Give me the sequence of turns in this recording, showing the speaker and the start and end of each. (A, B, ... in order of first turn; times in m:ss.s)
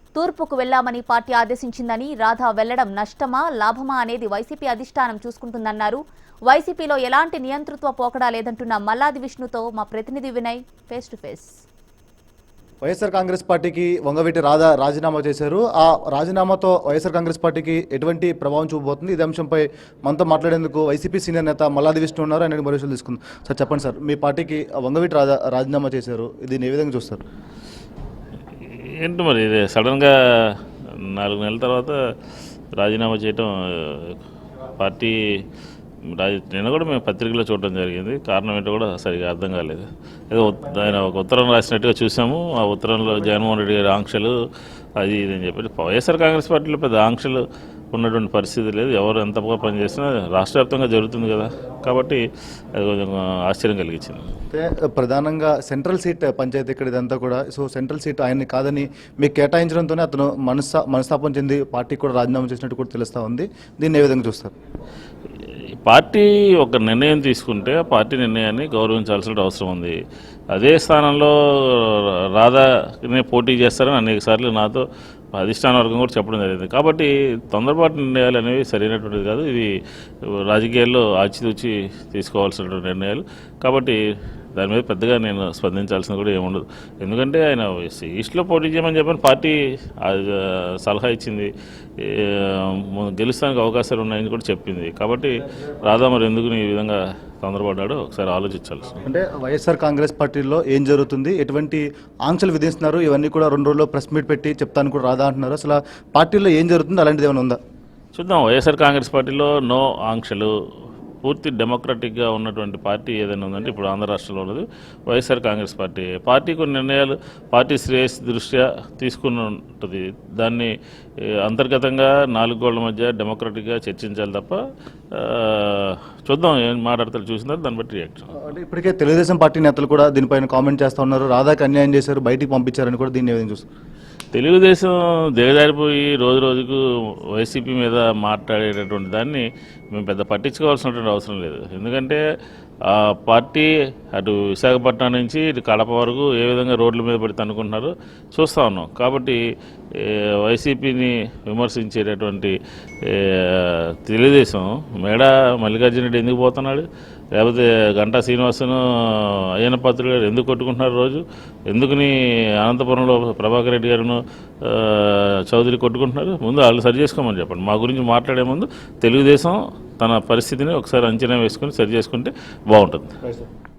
0:00.2-0:11.6 A
0:12.8-0:27.2 B
0:28.7-0:32.0 C
0:32.8-0:34.2 C
0:34.8-0:35.4 C
0:36.0-0:44.3 C
0:45.0-0:52.2 C
0:52.7-0:54.3 C
0:54.5-1:04.5 B
1:05.8-1:10.0 C
1:10.5-1:19.7 C
1:20.2-1:24.0 C
1:24.5-1:39.0 C
1:39.1-1:47.6 B
1:48.1-1:50.5 C
1:51.2-2:04.6 C
2:05.1-2:08.3 C
2:08.3-2:13.6 B
2:14.3-2:16.8 C
2:17.3-2:22.2 C
2:22.8-2:29.4 C
2:29.9-2:53.2 C